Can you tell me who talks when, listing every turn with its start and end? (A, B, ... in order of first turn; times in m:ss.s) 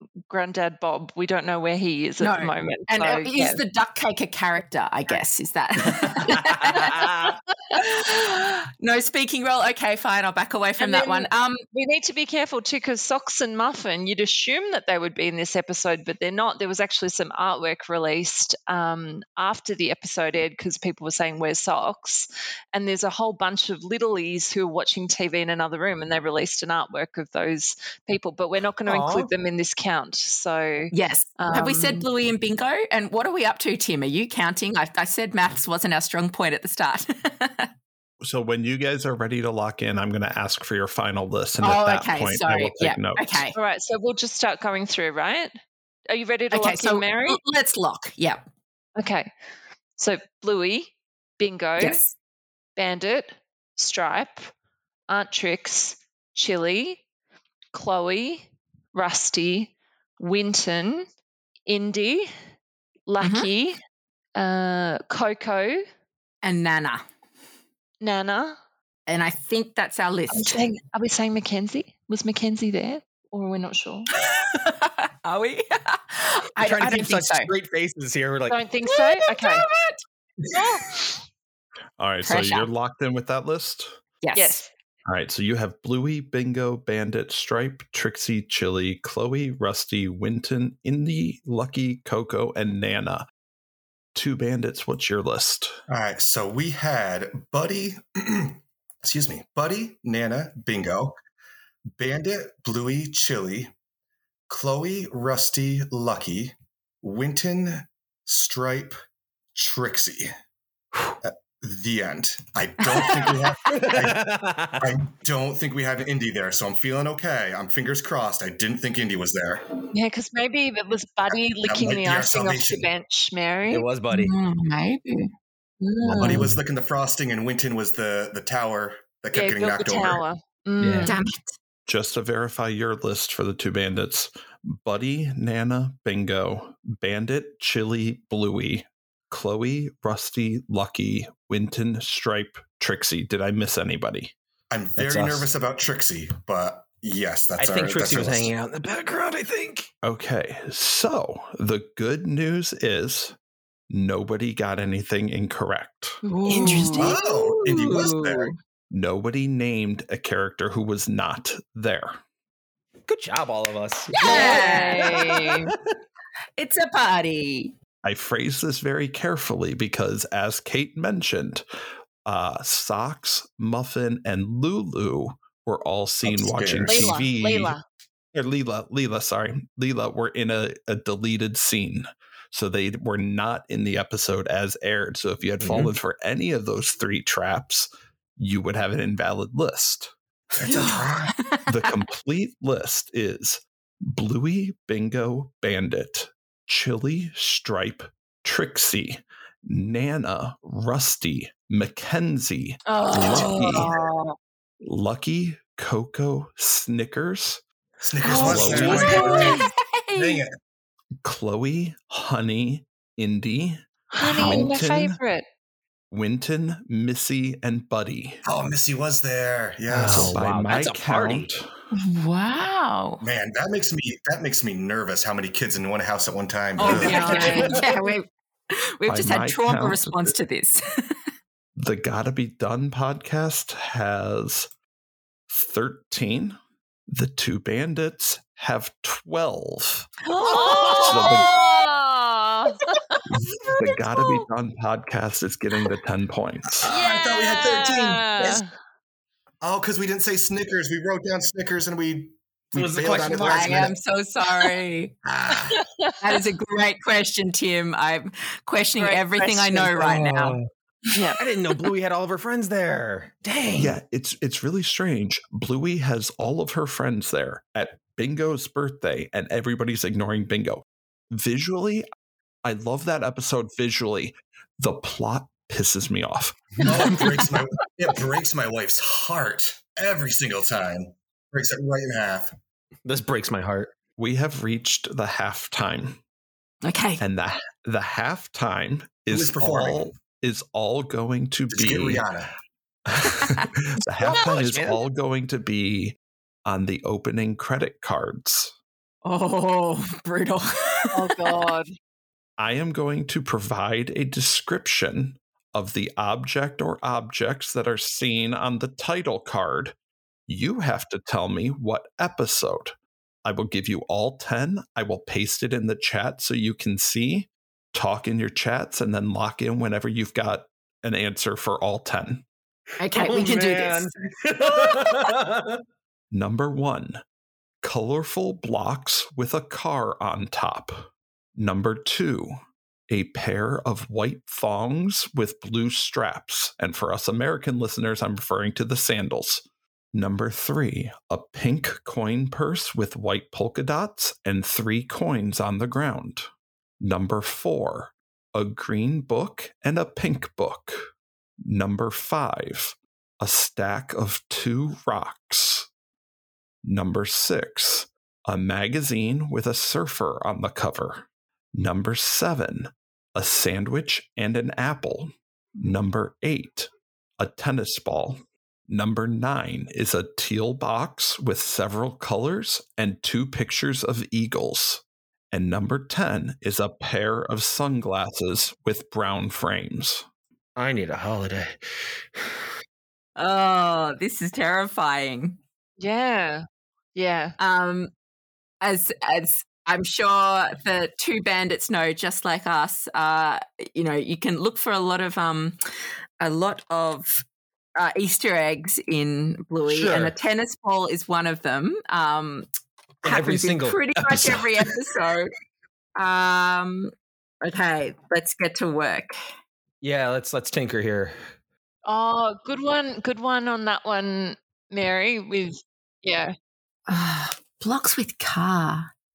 0:00.3-0:03.6 A
0:02.2-0:11.6 B
0:06.5-0:07.1 C
0:06.7-0:07.8 A
0:10.8-0:32.0 A
0:28.8-0:29.3 C
0:30.9-0:37.7 B
0:38.2-0:43.4 D
0:41.6-0:43.6 B
0:43.5-0:45.5 A
0:46.1-0:47.4 A
0:46.5-0:48.4 B
0:49.0-0:49.3 A
0:50.0-0:52.0 A
0:51.8-0:52.1 B
0:52.8-0:54.5 A
0:55.1-0:57.0 A
0:57.7-1:01.0 A
1:01.7-1:02.3 A
1:03.1-1:03.8 A
1:03.2-1:03.5 B
1:04.4-1:05.8 A
1:06.4-1:07.0 B
1:08.0-1:08.6 A
1:09.1-1:10.6 B
1:10.3-1:14.1 A
1:14.2-1:17.5 B
1:16.6-1:18.6 C
1:18.5-1:19.6 A
1:18.8-1:20.0 B
1:20.5-1:20.9 A
1:22.0-1:24.0 D
1:22.2-1:22.7 B
1:24.2-1:24.6 B
1:24.3-1:24.7 A
1:25.0-1:33.2 D
1:34.1-1:35.7 D
1:35.9-1:41.2 E
1:42.0-1:43.7 E
1:44.5-1:49.0 E
1:49.5-1:50.3 E
1:51.2-1:59.7 E
1:53.7-1:54.9 C
1:59.9-2:03.9 A
2:01.3-2:02.9 E
2:03.7-2:04.3 C
2:04.1-2:05.3 B
2:05.8-2:06.4 A
2:06.0-2:06.6 C
2:06.2-2:10.2 E
2:09.3-2:11.2 A
2:10.8-2:11.1 C
2:11.0-2:11.5 B
2:11.8-2:24.3 D
2:24.7-2:28.5 E
2:25.0-2:25.5 C
2:27.6-2:29.9 C
2:30.0-2:33.4 D
2:33.9-2:36.2 D
2:36.2-2:38.5 B
2:36.5-2:37.0 C
2:36.6-2:37.1 A
2:36.9-2:38.5 E
2:38.9-2:42.2 D
2:43.1-2:45.6 C
2:44.1-2:45.7 B
2:44.1-2:45.6 A
2:46.6-2:47.7 B
2:48.0-2:51.6 D
2:52.2-2:57.7 D
2:56.2-2:57.2 E
2:56.8-2:57.8 A
2:58.3-3:10.1 D
3:05.6-3:05.9 C
3:10.6-3:11.3 E
3:10.6-3:11.9 B
3:11.6-3:23.9 D
3:22.9-3:23.9 B
3:23.1-3:24.0 E
3:23.3-3:24.3 A
3:24.8-3:27.6 D
3:28.0-3:29.6 E
3:28.2-3:30.4 B
3:28.3-3:29.7 A
3:28.3-3:29.3 D
3:30.1-3:30.5 E
3:31.2-3:35.2 D
3:34.1-3:35.4 A
3:36.1-3:38.4 D
3:38.4-3:40.4 E
3:39.9-3:41.5 C
3:40.0-3:41.7 D
3:41.9-3:43.2 B
3:43.2-3:47.7 E
3:46.8-3:51.2 B
3:46.8-3:47.9 C
3:46.8-3:47.8 A
3:49.1-3:50.3 D
3:51.8-3:54.7 D
3:55.5-3:56.6 D
3:57.1-4:00.1 D
4:00.3-4:01.6 B
4:00.4-4:03.2 A
4:01.0-4:01.5 D
4:03.7-4:06.8 D
4:06.8-4:08.6 E
4:06.8-4:08.7 A
4:09.6-4:13.9 E
4:12.7-4:13.9 C
4:13.4-4:15.1 B
4:15.2-4:15.8 E
4:15.6-4:16.4 A
4:16.2-4:20.6 B
4:19.0-4:19.9 A
4:19.8-4:20.6 C
4:21.1-4:21.4 A
4:21.4-4:24.0 C
4:23.8-4:32.0 D
4:32.6-4:37.2 D
4:36.8-4:42.6 E
4:43.0-4:43.9 C
4:44.2-4:46.2 D
4:46.8-4:47.2 B
4:47.2-4:52.2 D
4:49.3-4:50.1 E
4:51.7-4:52.5 E
4:53.1-4:58.7 D
4:54.2-4:55.0 C
4:59.2-5:01.6 B
5:01.1-5:01.9 A
5:02.6-5:09.9 D
5:10.5-5:22.4 D
5:23.0-5:24.1 B
5:23.1-5:25.8 C
5:24.7-5:25.2 B
5:26.3-5:27.2 D
5:27.8-5:32.5 D
5:33.1-5:46.5 D
5:47.0-5:51.1 D
5:51.6-5:55.9 D
5:56.8-6:20.2 D
6:20.8-6:21.8 C
6:23.4-6:25.6 B
6:26.0-6:26.6 A
6:27.1-6:27.6 A
6:27.6-6:28.1 B
6:28.8-6:35.8 B
6:36.4-6:37.4 B
6:38.0-6:42.7 B
6:39.8-6:40.3 C
6:43.2-6:44.9 C
6:43.2-6:45.5 B
6:46.2-6:47.1 B
6:47.6-6:49.3 B
6:50.0-6:51.4 C
6:52.0-6:56.5 A
6:57.1-6:59.1 B